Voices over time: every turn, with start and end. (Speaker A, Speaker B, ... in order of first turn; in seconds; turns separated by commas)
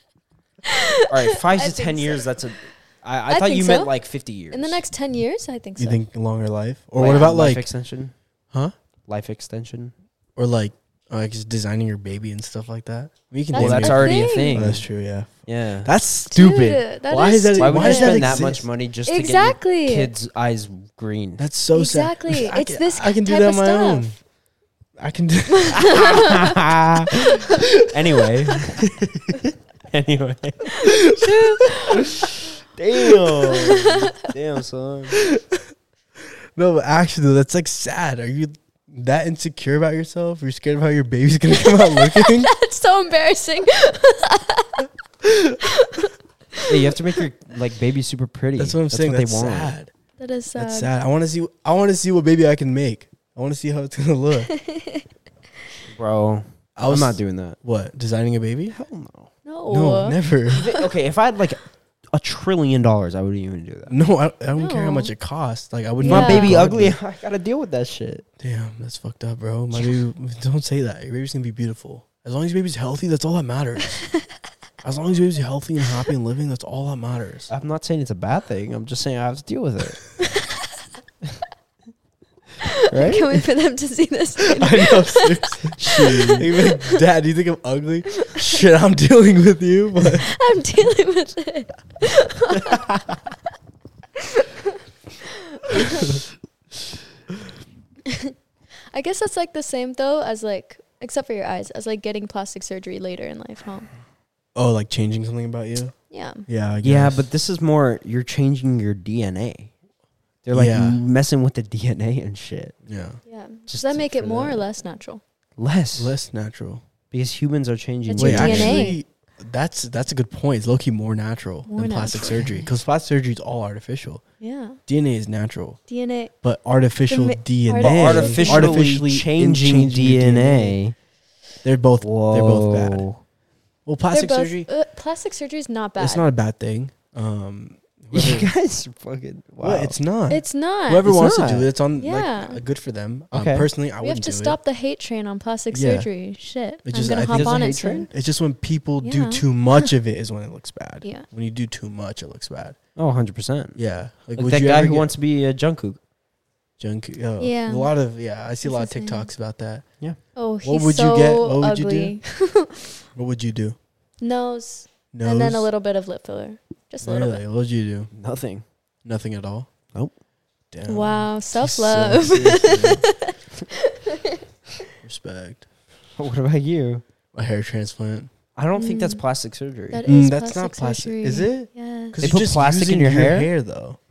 Speaker A: 0.6-2.3, Speaker B: 1.1-4.8, Speaker A: 3.3-3.9, Speaker A: 4.5-6.0, Speaker C: 5.8-7.7, Speaker B: 7.0-8.1, Speaker A: 7.0-7.3, Speaker B: 9.1-9.9, Speaker C: 10.4-18.7, Speaker A: 13.5-14.7, Speaker B: 13.5-14.9, Speaker B: 15.4-15.9, Speaker A: 16.3-18.3, Speaker B: 17.6-21.4, Speaker A: 19.1-20.1, Speaker C: 21.4-24.2, Speaker A: 21.7-24.1, Speaker C: 25.0-26.3, Speaker A: 25.6-26.6, Speaker B: 25.8-31.0, Speaker A: 30.8-32.1, Speaker B: 32.7-35.2, Speaker A: 33.4-34.3, Speaker C: 36.5-42.5, Speaker A: 41.6-44.9, Speaker A: 45.6-47.0, Speaker B: 46.7-49.8, Speaker C: 48.6-49.9, Speaker A: 50.2-50.9, Speaker C: 50.5-54.5, Speaker A: 54.5-55.0, Speaker B: 55.9-57.6, Speaker C: 56.8-58.8, Speaker B: 58.7-59.3, Speaker A: 59.4-60.2, Speaker C: 59.7-60.7, Speaker B: 60.5-64.0, Speaker C: 63.9-67.0, Speaker A: 64.6-65.1, Speaker A: 66.0-66.5, Speaker B: 66.0-68.2, Speaker C: 68.4-74.0, Speaker C: 74.8-77.5, Speaker B: 77.5-80.0, Speaker A: 80.2-80.7, Speaker A: 82.6-87.0, Speaker B: 82.9-83.4, Speaker C: 84.6-90.3, Speaker B: 85.8-86.5, Speaker A: 88.2-88.5, Speaker A: 90.2-92.9, Speaker A: 94.2-96.2, Speaker A: 98.1-98.3, Speaker A: 98.9-103.9, Speaker C: 104.5-105.9, Speaker A: 106.1-106.5, Speaker C: 106.5-107.2, Speaker B: 106.8-109.7, Speaker B: 110.4-112.8, Speaker C: 110.5-111.0, Speaker C: 112.8-113.2, Speaker A: 113.3-115.2, Speaker B: 113.7-114.5, Speaker C: 114.2-114.6, Speaker B: 115.6-116.1, Speaker C: 116.0-116.8, Speaker B: 117.1-118.8, Speaker A: 118.1-119.0, Speaker C: 118.2-124.2, Speaker A: 121.7-122.6, Speaker A: 124.4-124.8, Speaker C: 124.9-125.8, Speaker A: 125.9-126.3, Speaker C: 126.4-130.8, Speaker A: 127.1-128.8, Speaker B: 127.8-130.9, Speaker C: 131.6-133.1, Speaker B: 132.0-133.2, Speaker C: 133.8-134.7, Speaker A: 134.1-136.3, Speaker C: 136.0-138.5, Speaker B: 138.1-140.0, Speaker C: 139.6-144.6, Speaker A: 140.3-141.1, Speaker B: 141.0-141.7, Speaker A: 142.0-142.6, Speaker B: 143.3-143.7, Speaker A: 144.0-148.1, Speaker C: 145.7-146.1, Speaker C: 146.8-152.8, Speaker B: 147.2-148.1, Speaker A: 149.0-149.9, Speaker B: 152.9-153.8, Speaker C: 153.7-155.1, Speaker B: 154.3-156.0, Speaker C: 156.8-159.8, Speaker A: 157.4-157.9, Speaker A: 158.6-159.3, Speaker A: 160.3-162.9, Speaker C: 160.6-162.2, Speaker C: 163.1-163.8, Speaker A: 164.2-167.4, Speaker C: 165.1-165.7, Speaker C: 167.0-168.1, Speaker B: 168.1-168.6, Speaker C: 169.0-169.7, Speaker C: 170.7-173.0, Speaker A: 170.9-174.4, Speaker B: 172.4-172.9, Speaker C: 175.0-175.6, Speaker B: 176.2-177.0, Speaker C: 177.3-178.3, Speaker B: 178.6-180.0, Speaker A: 178.7-179.2, Speaker A: 179.9-182.2, Speaker C: 180.1-184.0, Speaker B: 182.2-183.5